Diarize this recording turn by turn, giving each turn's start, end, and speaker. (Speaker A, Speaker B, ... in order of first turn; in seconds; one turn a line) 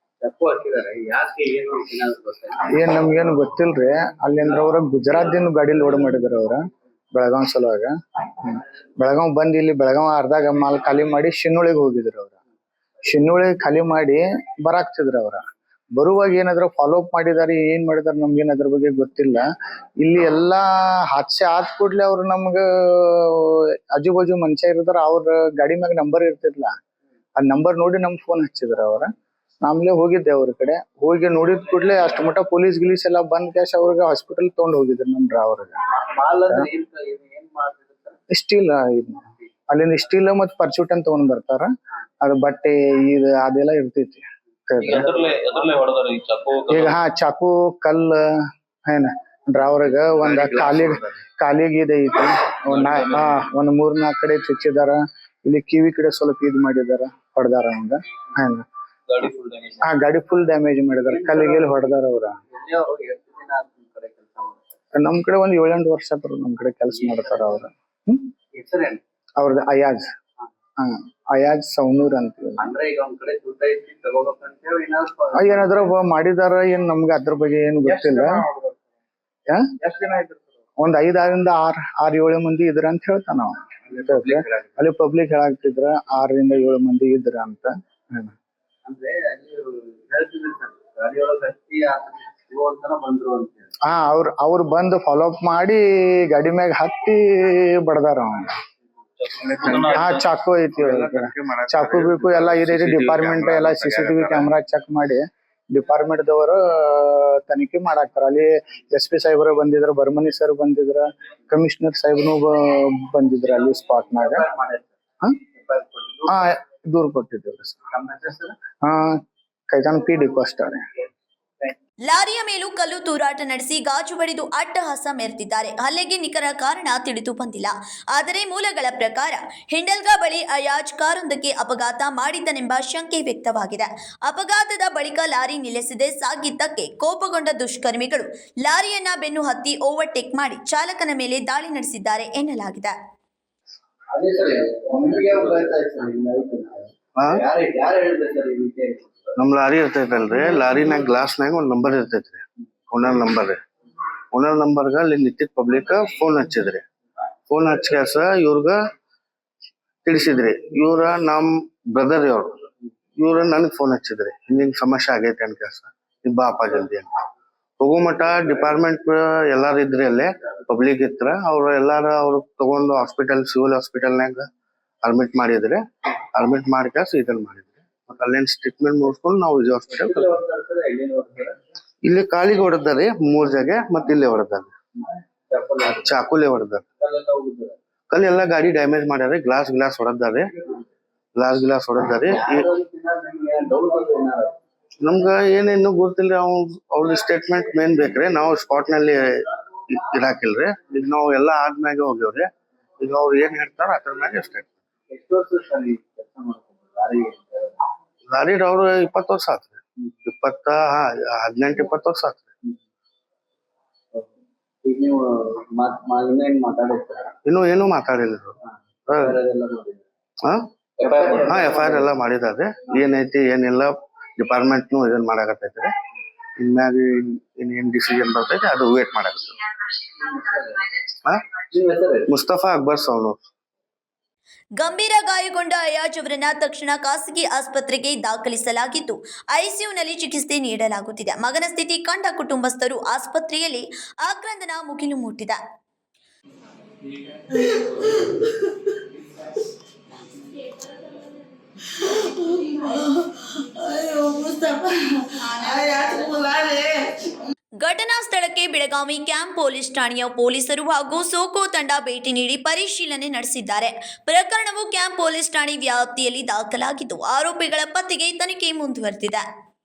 Speaker A: 0.2-2.7
Speaker B: 2.7-6.6
Speaker B: 7.1-7.9
Speaker B: 8.4-12.3
Speaker B: 13.0-15.4
Speaker B: 16.0-19.4
Speaker B: 20.0-26.7
Speaker B: 27.4-29.1
Speaker B: 29.6-35.8
Speaker A: 35.9-38.2
Speaker B: 38.3-41.7
Speaker B: 42.2-45.1
Speaker A: 44.8-45.6
Speaker C: 44.8-47.0
Speaker B: 46.7-48.2
Speaker B: 48.9-58.6
Speaker D: 50.3-51.0
Speaker C: 52.7-53.4
Speaker C: 59.1-59.8
Speaker B: 59.8-62.4
Speaker A: 61.1-61.9
Speaker A: 62.5-64.7
Speaker B: 64.9-68.2
Speaker A: 66.9-67.6
Speaker A: 68.5-69.0
Speaker B: 69.4-70.1
Speaker B: 70.8-72.6
Speaker A: 72.6-75.9
Speaker B: 75.3-78.4
Speaker D: 78.0-78.6
Speaker D: 79.9-80.2
Speaker B: 80.8-88.3
Speaker D: 83.9-84.8
Speaker A: 88.8-93.8
Speaker B: 93.8-98.5
Speaker C: 99.2-100.2
Speaker D: 99.4-100.1
Speaker B: 99.7-114.4
Speaker D: 100.8-104.5
Speaker A: 113.4-114.9
Speaker A: 115.5-116.5
Speaker B: 116.3-117.8
Speaker A: 117.9-118.6
Speaker B: 118.8-119.2
Speaker B: 119.7-120.8
Speaker E: 122.1-142.9
Speaker A: 144.1-149.3
Speaker D: 149.4-153.6
Speaker D: 154.3-156.8
Speaker D: 157.5-158.8
Speaker D: 160.0-162.6
Speaker D: 163.2-167.1
Speaker D: 167.8-174.5
Speaker D: 175.0-175.8
Speaker D: 176.3-180.4
Speaker A: 179.9-181.6
Speaker D: 182.0-184.7
Speaker A: 185.5-186.1
Speaker D: 186.0-186.8
Speaker A: 187.0-187.8
Speaker D: 188.1-190.5
Speaker D: 191.3-192.7
Speaker A: 192.3-194.5
Speaker D: 195.0-204.7
Speaker A: 205.1-207.8
Speaker D: 208.2-212.4
Speaker A: 214.8-217.3
Speaker D: 217.4-218.6
Speaker D: 219.1-219.4
Speaker A: 219.1-220.0
Speaker A: 221.0-222.2
Speaker D: 221.2-225.9
Speaker D: 226.6-229.6
Speaker A: 230.2-230.9
Speaker A: 231.7-232.3
Speaker D: 232.3-233.4
Speaker E: 234.8-245.6
Speaker E: 257.8-269.4